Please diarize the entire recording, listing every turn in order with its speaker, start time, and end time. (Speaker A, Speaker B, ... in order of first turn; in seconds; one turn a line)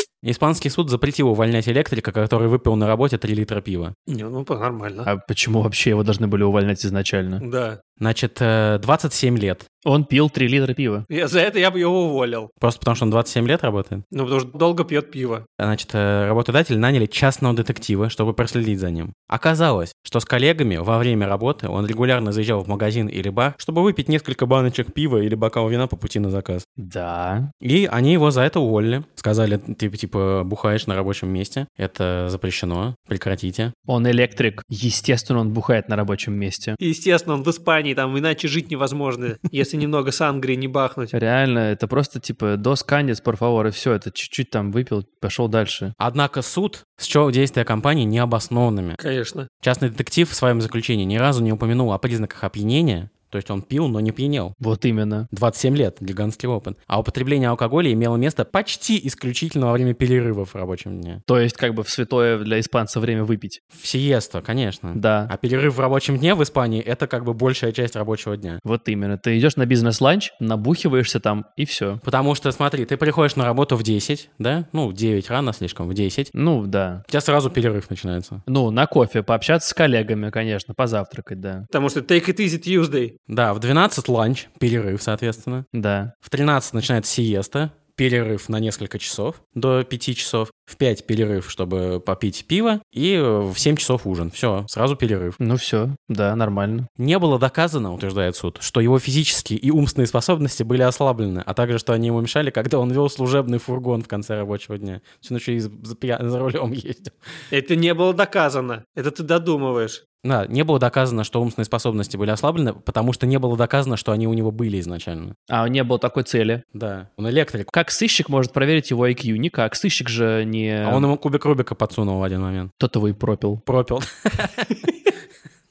Speaker A: 0.2-3.9
Speaker B: 4.1-5.1
Speaker C: 5.1-7.4
Speaker B: 7.4-7.8
Speaker A: 8.0-9.7
Speaker C: 9.8-11.1
Speaker B: 11.1-12.5
Speaker A: 12.6-14.0
Speaker B: 14.1-15.5
Speaker A: 15.6-26.6
Speaker C: 26.8-27.5
Speaker A: 27.6-33.7
Speaker C: 33.9-36.8
Speaker B: 36.8-41.1
Speaker C: 41.1-46.0
Speaker A: 46.0-49.0
Speaker B: 49.0-49.5
Speaker A: 49.6-54.5
Speaker C: 54.6-55.3
Speaker A: 55.3-61.2
Speaker C: 61.3-63.6
Speaker A: 63.8-68.6
Speaker C: 64.9-65.3
Speaker C: 68.6-72.0
Speaker A: 72.0-76.3
Speaker C: 76.3-77.0
Speaker A: 77.1-78.4
Speaker C: 78.5-81.7
Speaker B: 81.7-83.2
Speaker A: 83.3-85.7
Speaker C: 85.7-86.1
Speaker A: 86.2-95.4
Speaker C: 95.4-96.9
Speaker A: 97.0-107.2
Speaker B: 107.5-110.0
Speaker A: 110.2-115.3
Speaker C: 115.5-116.6
Speaker A: 116.7-117.7
Speaker C: 117.7-121.1
Speaker A: 120.8-122.7
Speaker C: 122.8-123.6
Speaker A: 123.7-124.9